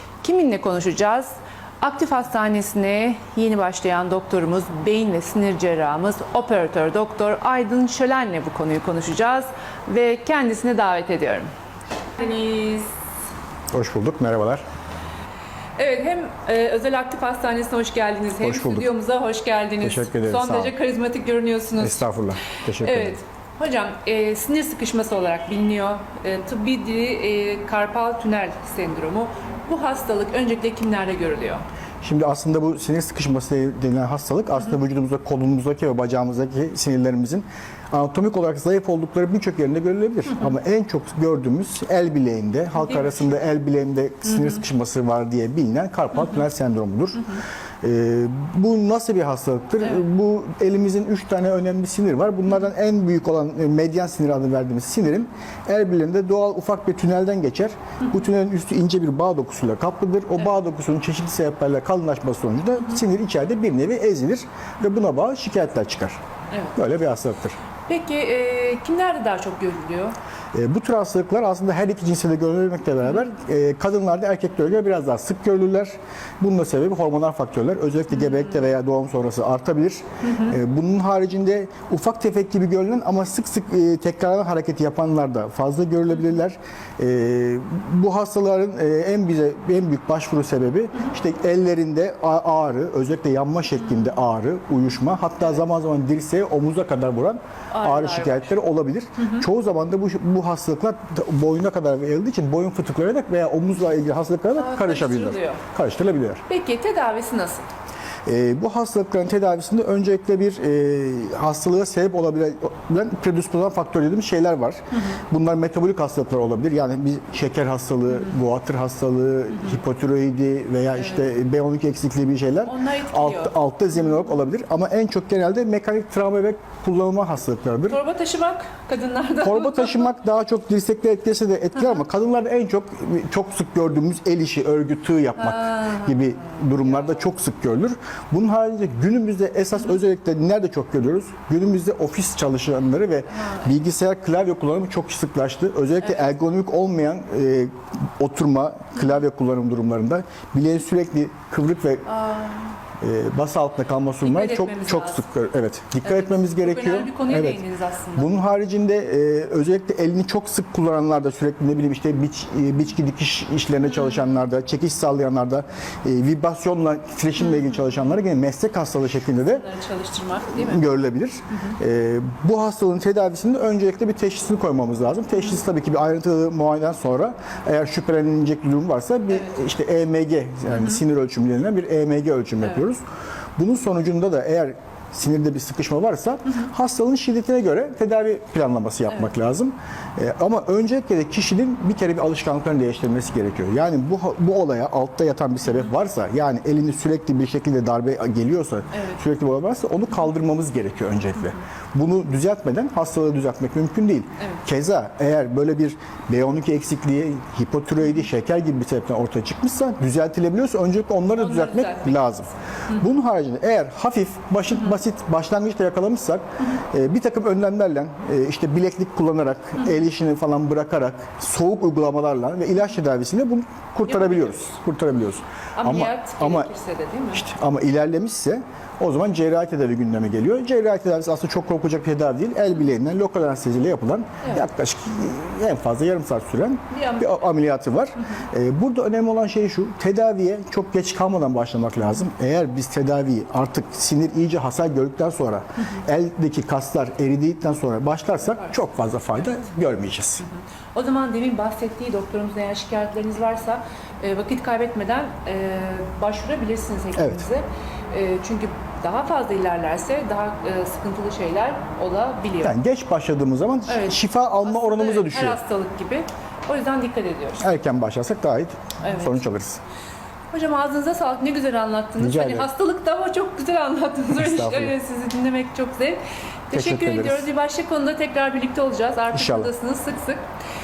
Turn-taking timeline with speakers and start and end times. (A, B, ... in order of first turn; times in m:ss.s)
0:00.2-0:11.5 A
0:12.2-0:12.9 A
0:13.7-0:14.6 B
0:15.8-0:22.0 A
0:18.4-0:18.9 B
0:19.8-0:20.8 B
0:21.8-0:23.2 B
0:22.8-0:31.6 A
0:32.0-1:06.2 B
0:42.8-0:43.1 A
1:06.8-1:07.6 B
1:07.9-1:10.2 A
1:10.5-1:46.4 B
1:37.7-1:38.4 A
1:44.6-1:45.6 A
1:46.5-1:47.6 A
1:48.3-2:08.0 B
2:02.7-2:03.5 A
2:07.9-2:10.0 A
2:09.4-2:32.1 B
2:15.6-2:16.1 A
2:33.0-2:37.6 B
2:34.2-2:35.2 A
2:36.1-2:38.3 A
2:38.2-2:49.7 B
2:49.4-2:50.8 A
2:50.6-3:03.0 B
3:03.6-3:46.7 B
3:31.4-3:32.2 A
3:44.1-3:44.6 A
3:45.8-3:47.4 A
3:47.3-4:10.4 B
3:56.9-3:57.5 A
4:10.4-4:22.8 A
4:17.2-4:17.4 B
4:22.6-4:25.6 B
4:23.9-4:27.6 A
4:27.6-4:29.8 B
4:29.0-4:29.4 A
4:30.5-4:40.4 A
4:32.2-4:32.7 B
4:34.3-4:35.0 B
4:36.7-4:37.5 B
4:39.3-4:39.7 B